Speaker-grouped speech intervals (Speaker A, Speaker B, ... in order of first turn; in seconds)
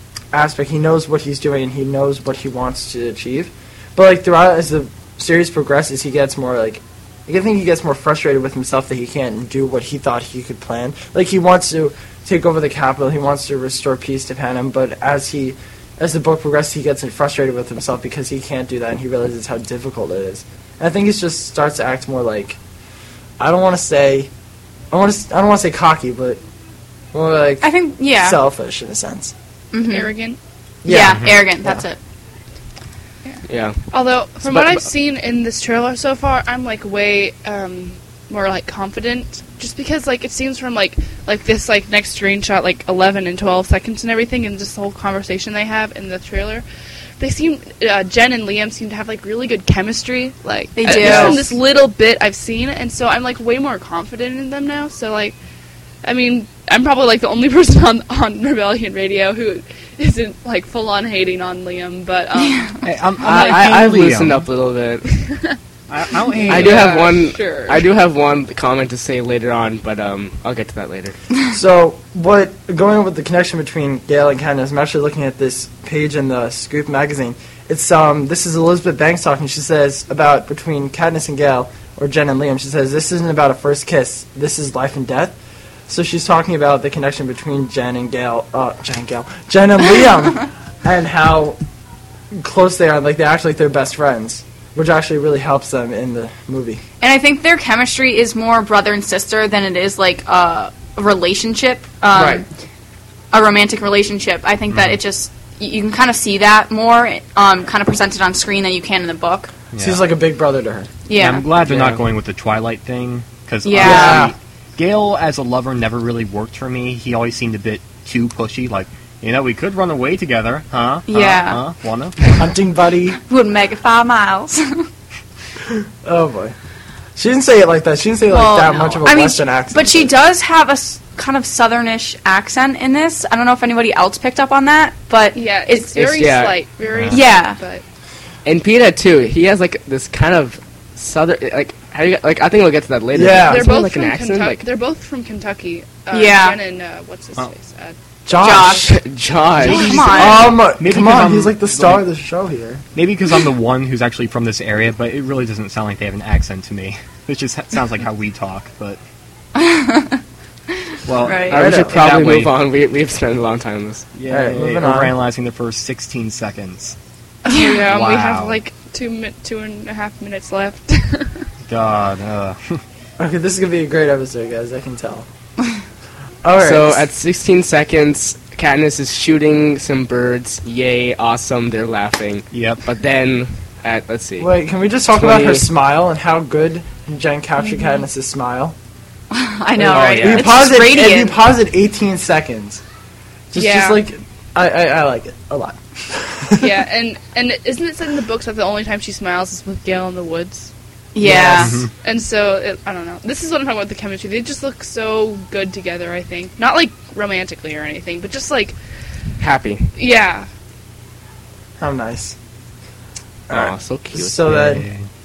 Speaker A: 0.3-22.6, 23.4-24.3, 24.9-26.4, 27.1-29.3, 30.8-31.8, 50.9-51.4, 71.5-85.4, 85.9-91.6, 92.3-96.8, 102.1-102.4, 109.8-110.9, 113.8-114.3, 122.4-123.2, 125.7-126.5, 127.2-130.1, 143.2-143.7, 148.3-148.9, 150.1-152.8, 161.5-162.0, 164.3-165.2, 173.2-175.3, 176.4-177.1, 184.4-188.8, 189.8-192.8, 193.5-196.8, 201.2-201.9, 211.8-212.4, 213.5-214.9
Speaker B: 27.6-28.4, 29.7-30.1, 30.9-32.0, 50.8-51.5, 97.0-102.5, 103.3-109.5, 111.1-111.5, 113.7-114.3, 121.1-121.6, 123.2-124.9, 128.3-136.0, 137.1-137.6, 146.1-146.6, 148.4-149.0, 149.6-150.6, 159.6-160.2, 161.2-161.6, 167.5-167.8, 189.3-191.4, 201.2-201.8
Speaker C: 29.9-30.4, 33.9-46.6, 47.2-55.4, 56.0-63.7, 65.1-65.5, 66.1-67.9, 135.3-137.8, 143.4-148.0, 149.7-150.4, 167.4-171.4, 187.7-188.0, 193.6-194.0, 196.6-200.7, 202.0-208.8, 210.0-210.5
Speaker D: 31.0-31.4, 62.8-64.5, 65.9-67.1, 104.7-105.0, 109.7-110.0, 111.2-122.5, 136.9-137.2, 150.8-152.0, 152.9-159.0, 161.1-162.6, 164.2-167.0, 167.8-168.6, 171.7-172.8, 182.5-182.8, 201.6-201.9, 214.4-215.1
Speaker E: 33.5-33.8, 34.4-34.9, 63.2-65.0, 66.5-71.2, 111.7-112.0, 135.9-136.6, 138.4-144.6, 148.6-150.1, 161.5-164.1, 176.6-184.5, 185.1-185.7, 189.9-190.6, 209.4-209.9, 213.5-214.4